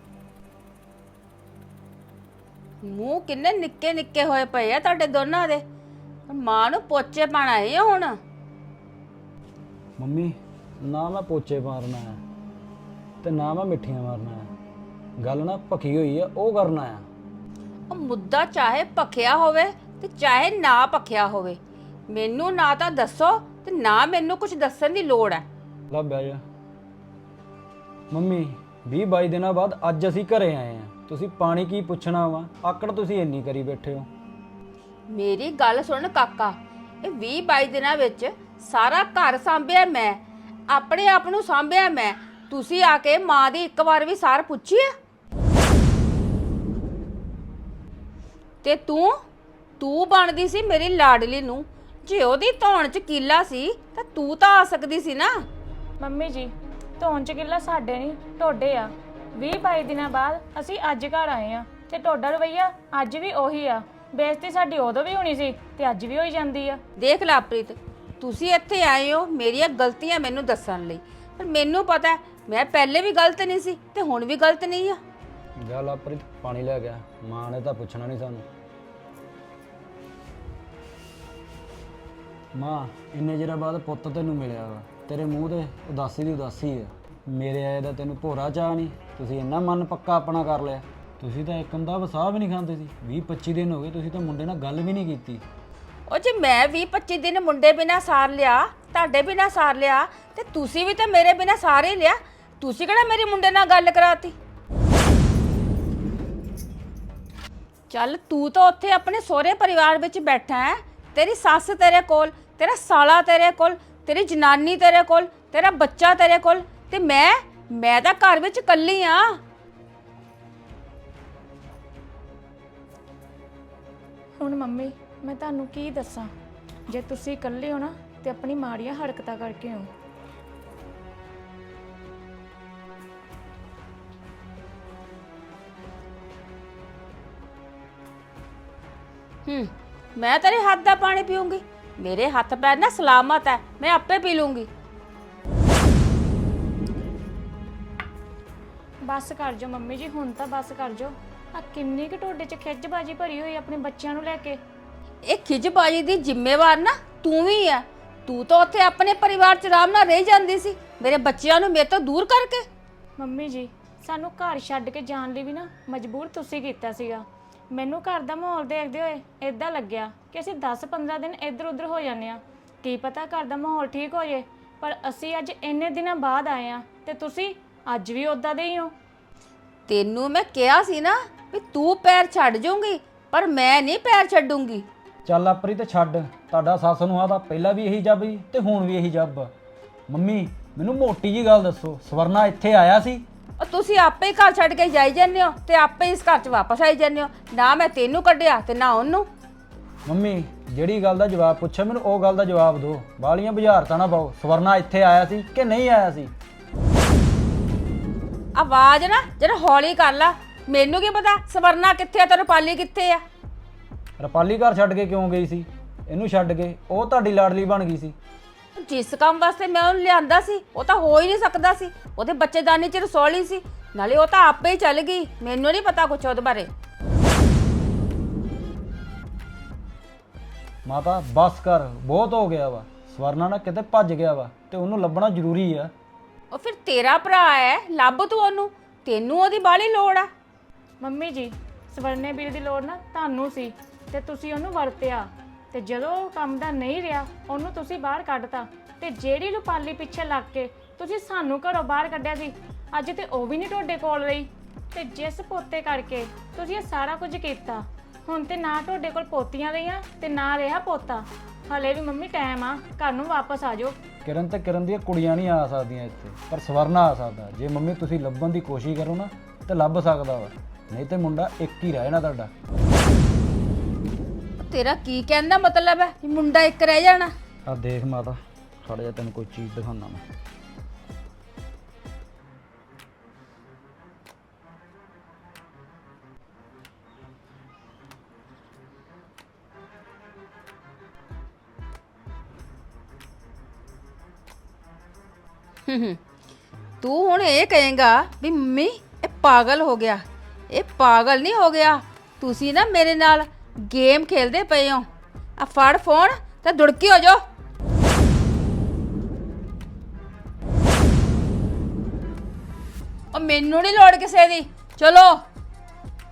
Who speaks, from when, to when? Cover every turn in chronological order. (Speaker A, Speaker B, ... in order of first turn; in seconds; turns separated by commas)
Speaker A: 2.8-5.6, Speaker A: 6.3-8.2, Speaker B: 10.0-12.2, Speaker B: 13.2-14.5, Speaker B: 15.2-17.1, Speaker A: 17.9-21.6, Speaker A: 22.1-25.4, Speaker B: 25.9-26.4, Speaker B: 28.1-34.1, Speaker A: 35.1-44.9, Speaker A: 48.6-49.2, Speaker A: 49.8-55.4, Speaker C: 56.0-66.8, Speaker A: 67.0-75.0, Speaker B: 75.6-78.5, Speaker B: 82.5-95.4, Speaker A: 96.1-104.3, Speaker A: 107.9-119.4, Speaker C: 124.4-126.3, Speaker C: 126.9-129.9, Speaker A: 139.5-144.7, Speaker C: 149.0-154.6, Speaker A: 155.2-162.7, Speaker C: 163.2-178.9, Speaker A: 179.9-184.8, Speaker B: 185.2-189.5, Speaker B: 190.1-193.3, Speaker A: 193.6-199.3, Speaker B: 200.1-206.3, Speaker A: 208.6-213.2, Speaker B: 214.2-218.2, Speaker A: 218.8-226.7, Speaker B: 230.9-235.9, Speaker A: 236.5-240.3, Speaker C: 241.0-264.0, Speaker B: 264.2-272.5, Speaker A: 274.6-277.3, Speaker B: 277.7-280.2, Speaker A: 295.9-296.2, Speaker A: 297.0-305.1, Speaker A: 305.6-307.4, Speaker A: 313.3-315.4